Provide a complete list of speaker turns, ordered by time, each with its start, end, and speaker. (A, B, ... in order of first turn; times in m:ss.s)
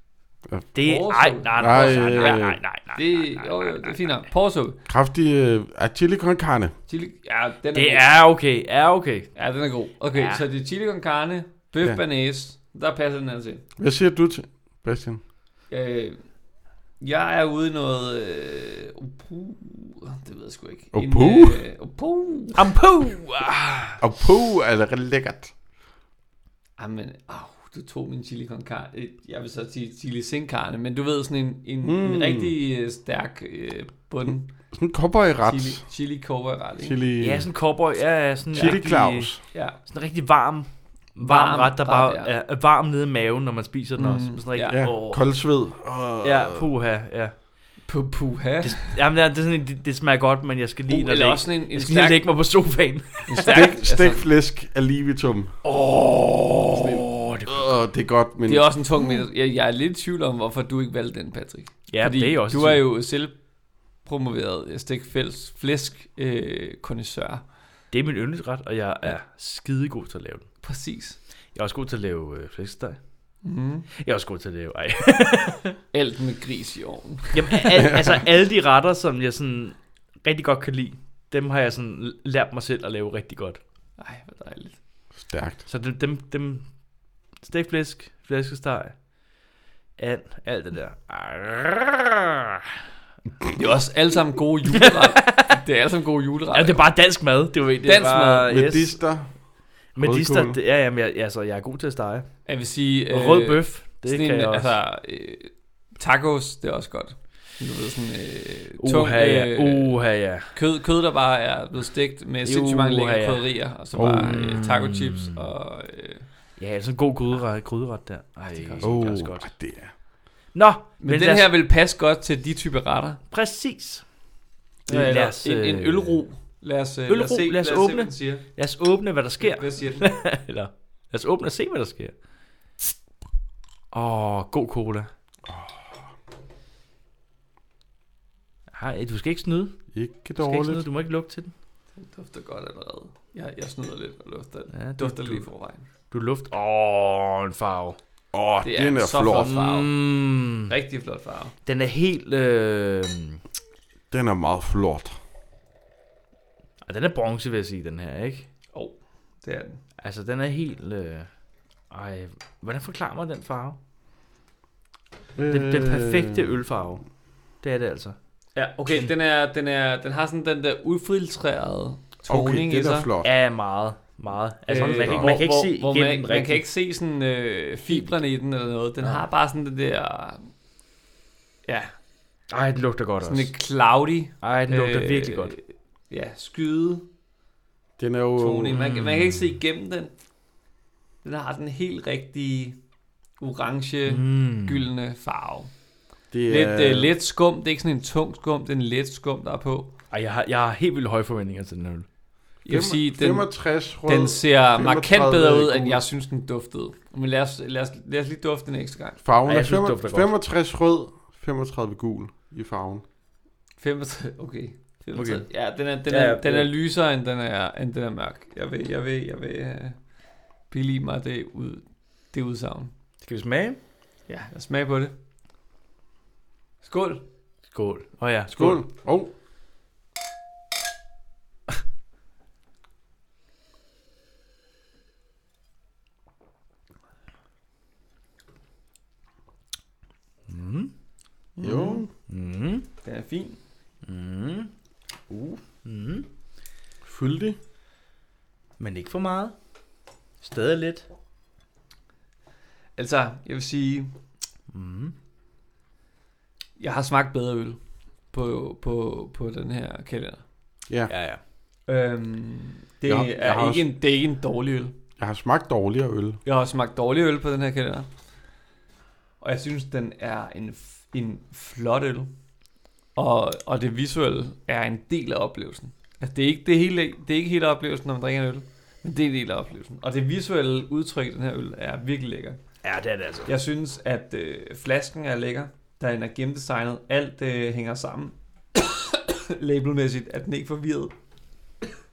0:00.7-0:04.0 A
0:00.8-0:02.4 B
0:01.6-0:02.6 C
0:02.9-0:04.8 B
0:04.9-0:06.7 C
0:06.9-0:08.1 B
0:07.7-0:09.4 A
0:09.4-0:13.6 B
0:10.1-0:10.4 A
0:13.8-0:15.2 C
0:15.7-0:16.2 B
0:17.0-0:22.6 B
0:20.9-0:21.6 C
0:22.6-0:24.0 A
0:24.0-0:25.5 C
0:26.8-0:34.5 B
0:31.8-0:32.5 C
0:34.7-0:35.8 C
0:35.4-0:37.0 B
0:36.8-0:37.5 C
0:37.2-0:45.2 A
0:38.5-0:39.4 C
0:38.5-0:38.9 B
0:39.5-0:39.8 B
0:41.2-0:42.3 B
0:44.0-0:44.8 B
0:44.7-0:46.7 C
0:46.2-0:47.3 A
0:47.9-0:48.9 B
0:48.6-0:53.7 A
0:50.9-0:52.3 B
0:53.3-0:54.2 B
0:53.5-0:55.6 C
0:55.6-0:57.6 A
0:56.7-0:59.2 C
0:58.4-1:03.4 B
1:01.9-1:02.8 A
1:04.0-1:07.4 B
1:07.9-1:10.5 A
1:10.6-1:11.2 B
1:11.5-1:13.0 A
1:13.4-1:13.9 B
1:14.0-1:15.8 A
1:15.9-1:18.0 B
1:17.3-1:23.6 A
1:24.0-1:24.8 B
1:25.2-1:25.6 C
1:25.6-1:26.6 A
1:27.4-1:29.0 A
1:30.0-1:32.6 A
1:33.5-1:36.9 B
1:34.7-1:35.6 A
1:36.5-1:39.0 A
1:37.8-1:38.5 B
1:38.5-1:39.3 C
1:39.9-1:42.3 A
1:40.0-1:40.6 C
1:42.4-1:50.0 B
1:43.1-1:44.7 A
1:48.8-1:50.5 A
1:50.5-1:56.3 B
1:52.4-1:53.5 A
1:53.9-1:54.6 C
1:54.2-1:55.4 A
1:56.6-1:59.5 A
1:58.5-1:58.9 B
1:58.8-1:59.9 C
2:00.5-2:01.5 A
2:01.0-2:03.2 B
2:03.3-2:04.0 A
2:04.9-2:06.2 A
2:04.9-2:08.5 B
2:07.1-2:12.1 A
2:09.4-2:10.1 B
2:13.9-2:15.1 A
2:15.5-2:16.0 C
2:18.7-2:19.8 A
2:19.9-2:20.8 C
2:20.4-2:21.5 A
2:21.9-2:25.9 B
2:24.7-2:25.4 A
2:26.1-2:28.0 A
2:28.3-2:29.5 C
2:28.6-2:29.9 B
2:29.4-2:30.7 A
2:30.7-2:31.5 B
2:31.6-2:33.4 A
2:34.1-2:35.2 C
2:36.8-2:38.4 A
2:38.7-2:39.8 B
2:40.0-2:41.3 A
2:41.9-2:43.8 A
2:45.4-2:46.5 C
2:45.5-2:47.0 A
2:47.6-2:48.2 A
2:48.5-2:53.1 B
2:52.3-2:53.3 C
2:53.2-2:56.6 A
2:54.7-3:00.5 B
2:54.8-2:55.4 C
3:01.7-3:01.9 B
3:02.5-3:03.5 A
3:03.2-3:07.1 B
3:04.4-3:05.6 A
3:08.0-3:08.7 C
3:08.4-3:10.1 B
3:08.7-3:09.6 A
3:11.2-3:12.8 B
3:13.4-3:15.7 B
3:14.1-3:14.9 A
3:16.3-3:17.1 C
3:16.5-3:19.9 B
3:20.1-3:22.0 A
3:22.6-3:23.5 B
3:22.7-3:26.0 C
3:24.0-3:29.2 B
3:29.2-3:33.0 C
3:29.5-3:30.3 A
3:33.8-3:40.0 B
3:35.1-3:35.5 A
3:36.1-3:36.7 A
3:40.7-3:42.9 B
3:43.2-3:43.8 A
3:44.3-3:45.1 B
3:46.8-3:47.2 B
3:47.7-3:48.8 A
3:48.6-3:49.3 C
4:00.5-4:00.9 A
4:01.6-4:02.0 B
4:01.6-4:02.1 C
4:02.3-4:02.9 A
4:03.0-4:03.6 B
4:04.0-4:04.7 A
4:05.3-4:05.6 C
4:05.8-4:06.3 A
4:07.0-4:07.6 C
4:08.8-4:09.6 A
4:10.4-4:11.0 A
4:13.0-4:14.1 B
4:14.7-4:15.1 A
4:16.8-4:17.8 B
4:18.3-4:20.4 B
4:21.1-4:21.4 A
4:21.9-4:24.9 B
4:23.1-4:23.8 C
4:25.2-4:26.4 C
4:26.4-4:28.1 B
4:29.4-4:32.3 B
4:33.2-4:42.6 B
4:42.8-4:43.5 A
4:43.4-4:51.1 B